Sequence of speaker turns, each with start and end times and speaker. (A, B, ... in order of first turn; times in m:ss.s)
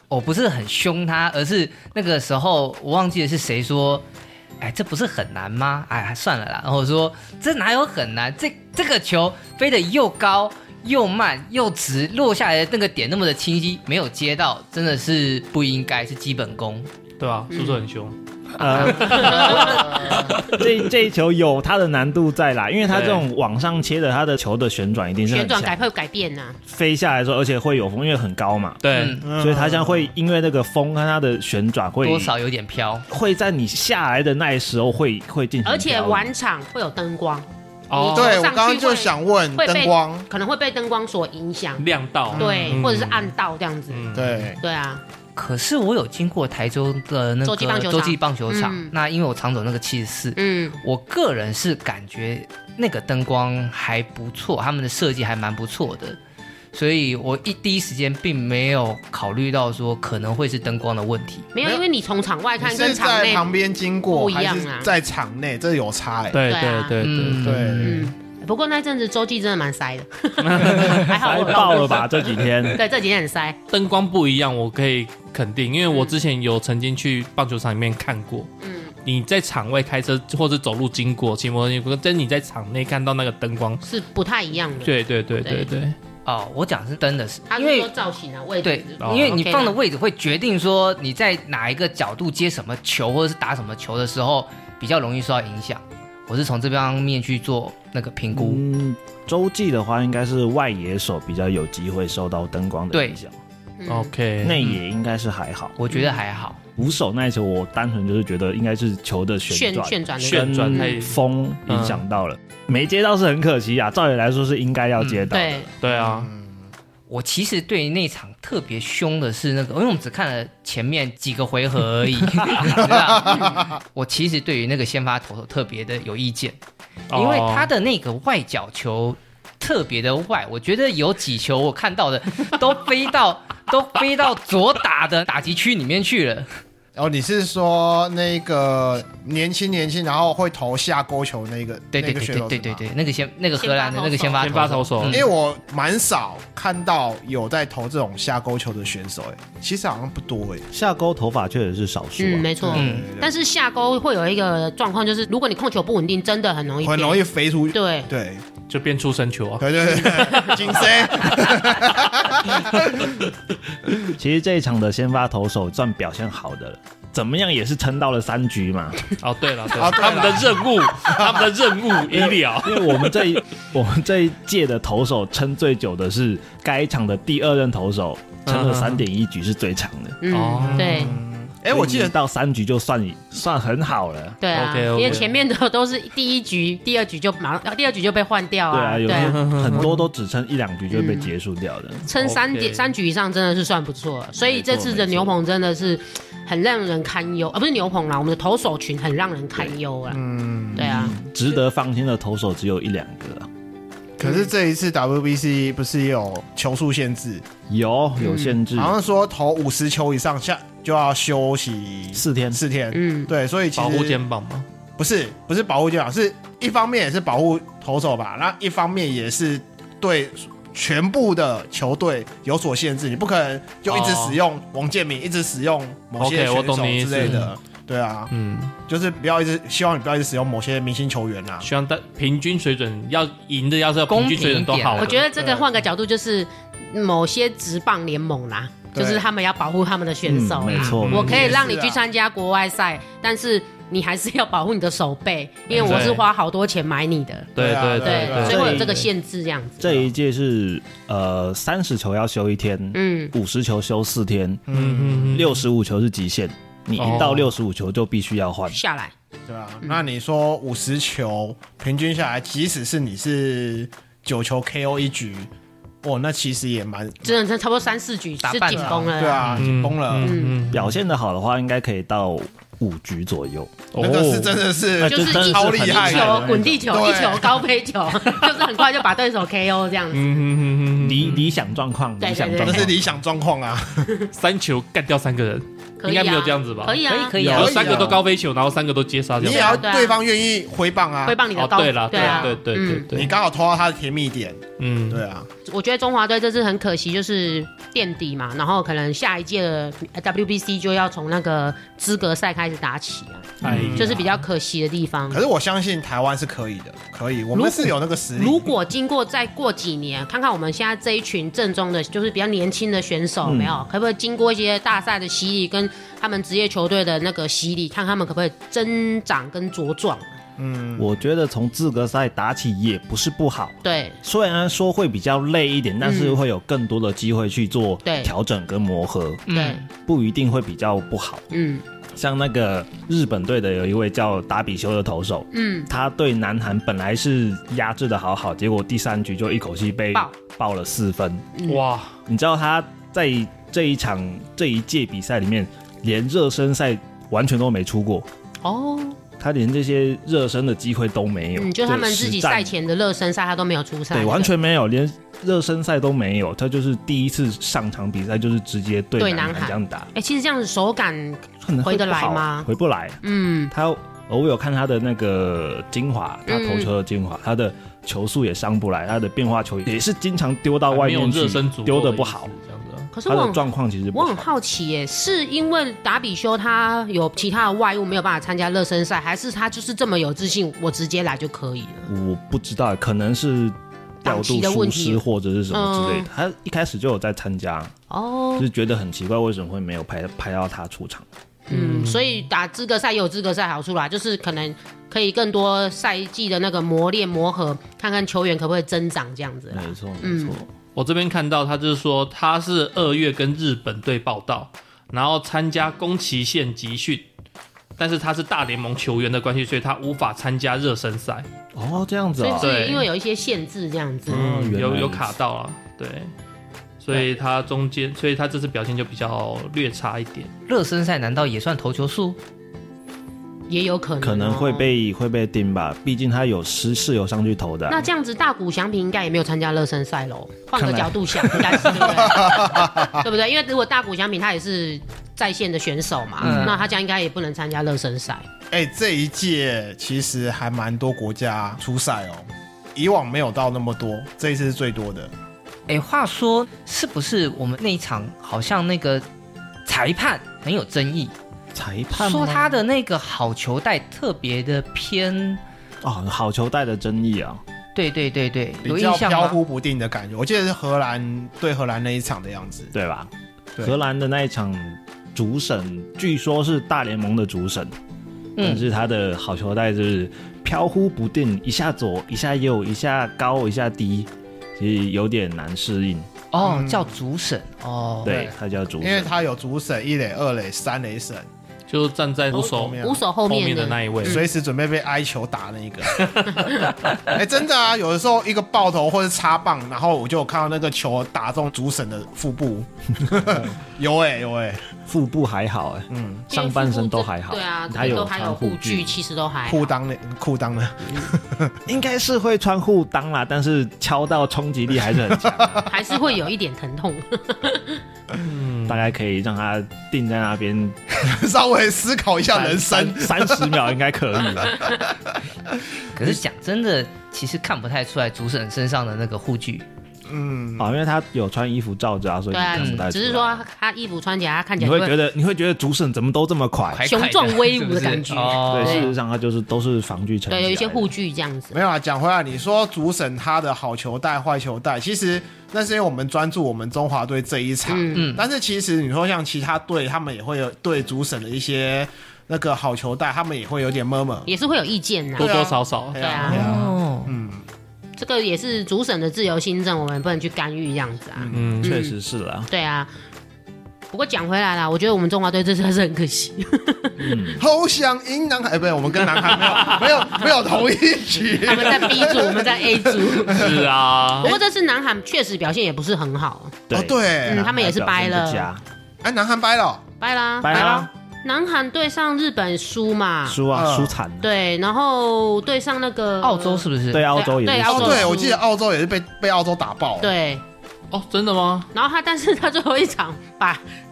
0:00.1-0:04.0 A
0:04.6-0:16.9 A
0:17.2-0:20.6 B
0:17.5-0:17.8 C
0:18.6-0:25.8 D
0:19.1-0:19.8 C
0:19.8-0:20.2 E
0:22.9-0:23.2 B
0:25.3-0:26.6 C
0:26.6-0:28.8 D
0:28.8-0:29.2 B
0:28.9-0:29.3 A
0:29.2-0:30.1 E
0:29.4-0:32.3 D
0:32.0-0:33.0 A
0:33.1-0:36.3 D
0:35.6-0:44.1 C
0:37.9-0:38.3 B
0:38.1-0:40.2 E
0:41.8-0:43.3 B
0:42.3-0:42.8 E
0:43.9-0:44.5 B
0:44.1-0:44.6 E
0:44.6-0:45.0 C
0:45.4-0:56.2 A
0:47.4-0:48.9 C
0:50.4-0:50.8 C
0:56.7-1:01.5 A
1:01.5-1:03.5 C
1:02.6-1:06.4 E
1:04.1-1:04.9 C
1:06.3-1:07.8 B
1:06.4-1:07.0 C
1:07.0-1:08.1 A
1:07.4-1:08.0 E
1:07.8-1:13.6 C
1:10.4-1:11.0 B
1:10.6-1:12.8 D
1:13.7-1:18.5 B
1:15.9-1:16.1 C
1:18.6-1:18.9 C
1:19.0-1:23.8 B
1:23.8-1:25.7 C
1:24.8-1:26.0 B
1:26.2-1:27.9 A
1:27.5-1:29.8 C
1:28.6-1:38.6 A
1:29.0-1:29.4 B
1:38.3-1:43.4 D
1:42.9-1:43.2 A
1:43.8-1:44.1 C
1:43.9-1:44.6 B
1:44.4-1:45.7 D
1:45.8-1:46.6 A
1:45.9-1:46.2 C
1:46.8-1:55.7 D
1:49.5-1:51.0 C
1:50.2-1:52.0 B
1:55.3-1:55.7 C
1:55.8-1:56.3 B
1:55.8-1:56.7 E
1:57.1-2:06.6 A
2:02.8-2:03.8 E
2:07.1-2:07.7 B
2:07.1-2:16.5 A
2:17.0-2:22.8 E
2:21.9-2:25.3 A
2:23.6-2:24.8 C
2:24.4-2:25.2 B
2:25.0-2:30.7 E
2:30.7-2:32.7 D
2:32.2-2:38.1 C
2:32.6-2:33.3 E
2:32.7-2:33.1 A
2:36.8-2:38.4 E
2:38.7-2:40.6 B
2:39.6-2:43.2 E
2:40.0-2:40.5 C
2:44.1-2:49.0 D
2:49.2-2:53.4 B
2:49.7-2:51.4 E
2:52.1-3:00.2 D
2:58.4-2:59.0 B
3:00.2-3:01.2 C
3:00.3-3:01.2 B
3:00.6-3:02.1 E
3:01.7-3:04.4 D
3:04.4-3:09.9 C
3:04.5-3:05.3 B
3:08.7-3:12.0 D
3:09.1-3:10.0 B
3:10.9-3:11.3 C
3:12.0-3:20.2 C
3:12.2-3:12.9 B
3:14.4-3:15.4 D
3:20.1-3:21.1 E
3:20.8-3:21.2 C
3:20.8-3:23.5 D
3:24.2-3:27.4 E
3:24.2-3:24.5 C
3:27.7-3:28.9 D
3:28.2-3:28.6 C
3:28.7-3:34.2 E
3:32.1-3:32.6 D
3:32.9-3:33.3 C
3:33.7-3:34.6 B
3:35.0-3:48.3 E
3:43.8-3:44.4 B
3:46.2-3:47.5 B
3:48.3-3:48.7 B
3:48.9-3:51.7 E
3:51.6-3:55.2 B
3:54.1-3:55.2 A
3:55.0-4:10.1 C
3:55.3-3:55.7 E
3:58.9-3:59.2 E
4:00.2-4:01.5 D
4:00.7-4:01.6 B
4:01.1-4:02.0 E
4:05.7-4:06.1 E
4:05.7-4:06.2 B
4:07.6-4:08.7 E
4:07.6-4:09.1 B
4:08.4-4:09.0 D
4:09.8-4:14.6 D
4:12.9-4:13.3 C
4:14.7-4:15.4 E
4:14.7-4:15.6 B
4:15.3-4:18.8 D
4:17.0-4:17.5 B
4:18.7-4:19.1 C
4:19.5-4:25.5 E
4:26.0-4:27.4 E
4:27.2-4:29.6 C
4:28.4-4:29.0 A
4:28.7-4:30.3 E
4:29.5-4:30.9 B
4:30.2-4:30.6 C
4:30.7-4:33.8 D
4:33.9-4:34.6 B
4:34.0-4:37.6 E
4:35.0-4:36.8 D
4:35.0-4:40.4 C
4:40.1-4:41.5 B
4:40.9-4:43.1 D
4:42.2-4:42.9 C
4:42.6-4:44.1 E
4:44.3-4:49.8 B
4:46.0-4:47.4 C
4:47.0-4:48.0 A
4:47.4-4:47.7 D
4:47.4-4:48.2 E
4:49.4-4:51.4 E
4:49.4-4:50.2 C
4:51.2-4:53.2 C
4:51.6-4:53.3 B
4:52.1-4:52.5 E
4:53.1-4:55.5 E
4:54.8-4:55.2 B
4:55.6-5:05.4 C
5:03.6-5:04.1 D
5:03.6-5:04.3 B
5:03.6-5:04.2 E
5:05.3-5:08.7 E
5:07.5-5:20.3 C
5:13.4-5:13.8 D
5:20.6-5:21.1 E
5:21.0-5:31.4 D
5:23.8-5:24.2 C
5:26.0-5:26.4 C
5:28.0-5:28.3 C
5:29.4-5:29.8 A
5:29.5-5:29.8 C
5:31.5-5:31.8 C
5:32.2-5:41.4 D
5:35.5-5:35.9 C
5:41.5-5:41.8 C
5:41.7-5:42.2 B
5:42.2-5:48.3 D
5:48.6-5:49.2 C
5:49.4-5:52.7 D
5:51.6-5:54.5 C
5:54.1-6:00.1 D
5:59.2-6:02.7 C
6:01.6-6:12.5 D
6:03.2-6:03.7 C
6:06.5-6:06.9 C
6:10.9-6:13.1 B
6:13.1-6:22.1 C
6:13.2-6:14.5 D
6:22.1-6:27.9 D
6:24.2-6:26.3 C
6:28.1-6:28.7 C
6:28.6-6:31.2 D
6:31.7-6:40.6 C
6:31.7-6:32.4 B
6:39.7-6:40.7 D
6:40.9-6:47.3 B
6:48.0-6:51.5 B
6:51.7-6:52.7 D
6:52.4-6:54.4 C
6:52.6-6:53.1 B
6:54.3-6:55.4 D
6:54.3-6:56.3 B
6:57.0-7:00.5 B
7:00.7-7:02.4 A
7:03.7-7:04.9 C
7:04.2-7:08.1 D
7:07.9-7:18.4 C
7:10.8-7:11.8 D
7:11.9-7:13.2 E
7:16.4-7:16.7 A
7:16.4-7:16.7 D
7:18.7-7:25.3 E
7:25.9-7:29.2 A
7:29.8-7:31.3 A
7:31.7-7:32.8 D
7:32.1-7:35.6 A
7:36.0-7:37.6 D
7:37.9-7:39.6 A
7:38.8-7:42.9 E
7:42.9-7:43.3 D
7:43.8-7:47.9 D
7:48.6-7:48.8 A
7:48.6-7:56.3 D
7:56.5-7:58.4 A
7:56.6-7:57.1 E
7:58.2-7:59.3 D
7:58.2-8:01.5 E
8:01.9-8:04.4 B
8:02.5-8:03.2 E
8:02.5-8:04.5 C
8:04.2-8:06.4 E
8:06.2-8:06.8 B
8:06.6-8:06.9 C
8:07.3-8:14.8 E
8:13.3-8:13.7 D
8:15.1-8:19.1 D
8:16.1-8:16.5 E
8:16.5-8:19.9 C
8:19.7-8:21.7 E
8:21.8-8:25.9 D
8:25.4-8:25.9 E
8:25.8-8:28.0 C
8:28.4-8:29.0 B
8:28.9-8:31.3 D
8:31.2-8:33.8 E
8:32.5-8:34.9 D
8:34.6-8:36.2 E
8:36.2-8:39.8 A
8:40.3-8:40.9 E
8:40.8-8:43.6 D
8:42.5-8:45.2 C
8:42.7-8:43.0 A
8:44.8-8:47.1 D
8:46.9-8:49.1 A
8:47.0-8:49.1 C
8:48.7-8:51.1 D
8:50.5-8:51.8 C
8:51.7-9:04.5 E
8:57.9-8:58.3 C
8:58.1-8:58.4 A
9:04.4-9:05.5 C
9:05.4-9:06.9 B
9:05.4-9:07.6 E
9:06.2-9:06.6 C
9:06.5-9:07.3 A
9:08.2-9:12.2 C
9:11.4-9:11.8 E
9:11.5-9:11.9 B
9:11.8-9:12.7 D
9:12.7-9:13.1 C
9:14.1-9:17.5 C
9:17.2-9:17.6 D
9:17.6-9:24.6 E
9:19.6-9:20.0 B
9:21.6-9:23.6 C
9:23.5-9:24.5 B
9:24.4-9:26.8 C
9:26.9-9:28.8 D
9:26.9-9:27.7 E
9:27.4-9:28.7 C
9:29.2-9:30.0 E
9:30.2-9:33.6 C
9:30.6-9:31.1 D
9:33.5-9:34.5 D
9:33.7-9:34.1 E
9:34.4-9:38.6 C
9:36.4-9:37.3 A
9:37.1-9:38.4 D
9:37.8-9:40.3 E
9:40.2-9:40.6 C
9:41.1-9:41.9 B
9:41.9-9:43.8 C